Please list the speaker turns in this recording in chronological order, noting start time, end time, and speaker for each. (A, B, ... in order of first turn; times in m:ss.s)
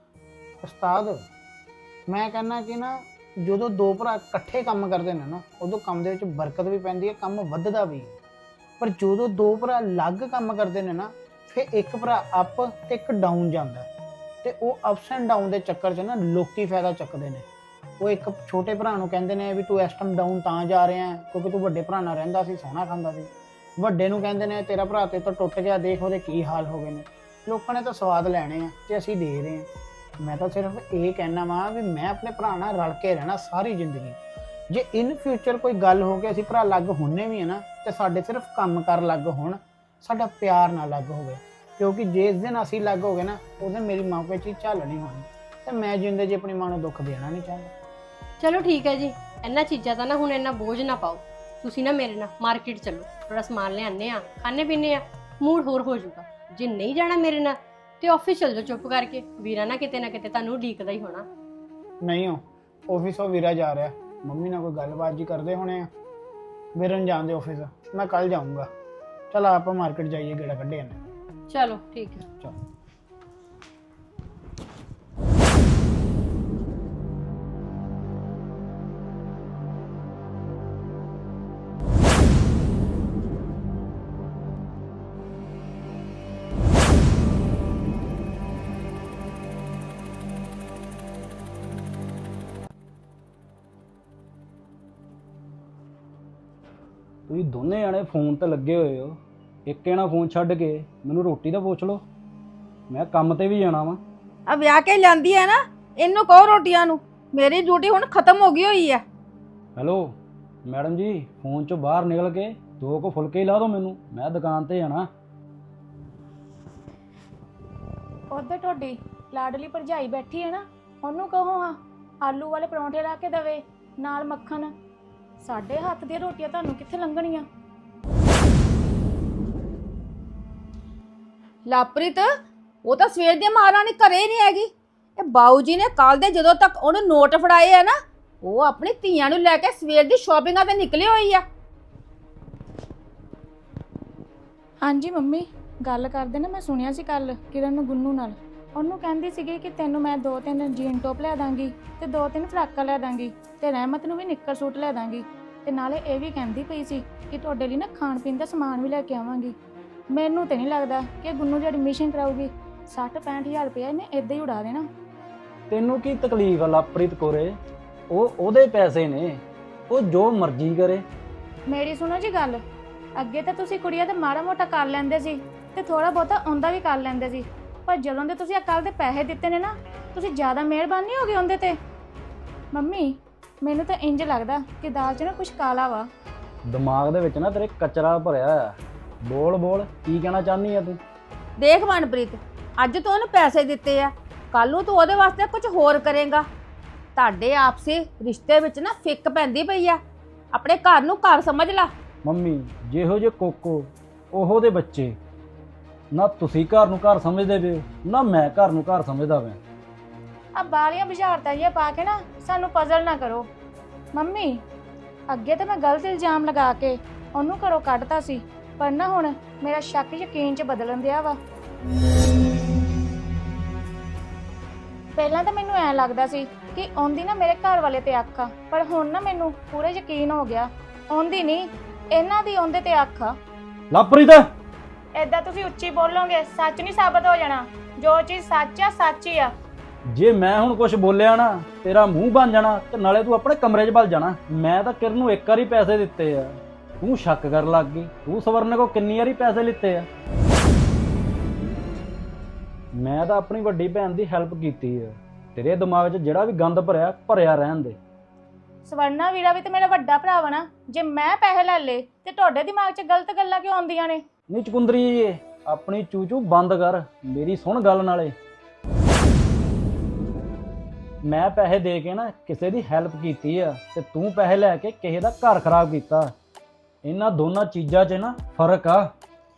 0:00.6-0:01.2 A
0:02.1-0:08.2 A
0:08.8-0:13.9 A
0:14.4-0:17.4 A
0:18.0-0:29.7 A
0:30.2-0:34.2 A
0:34.7-0:47.7 A
0:48.4-1:01.3 B
1:02.0-1:05.9 A
1:06.8-1:08.7 A
1:09.3-1:11.0 A
1:11.5-1:12.2 B
1:37.3-1:42.0 C
1:42.9-1:44.0 C
1:44.5-1:49.0 D
1:49.8-1:50.1 C
1:50.6-1:55.1 C
1:58.3-2:04.7 E
2:05.4-2:07.4 E
2:11.6-2:12.3 D
2:12.8-2:21.4 D
2:24.8-2:39.6 E
2:40.1-2:44.8 E
2:45.7-2:47.6 C
2:48.1-2:51.0 C
2:51.7-2:52.6 E
2:53.2-3:01.8 E
3:02.7-3:06.1 E
3:06.7-3:11.0 C
3:11.6-3:16.4 D
3:17.2-3:20.0 D
3:20.5-3:21.9 D
3:22.2-3:25.2 C
3:26.1-3:29.6 C
3:30.6-3:33.5 E
3:34.1-3:34.6 E
3:35.3-3:41.4 E
3:45.2-3:53.3 E
3:53.9-3:54.5 C
3:55.2-3:59.5 E
4:00.1-4:10.1 C
4:12.9-4:18.0 C
4:18.8-4:24.2 E
4:24.5-4:28.3 C
4:31.2-4:36.3 C
4:37.0-4:39.1 C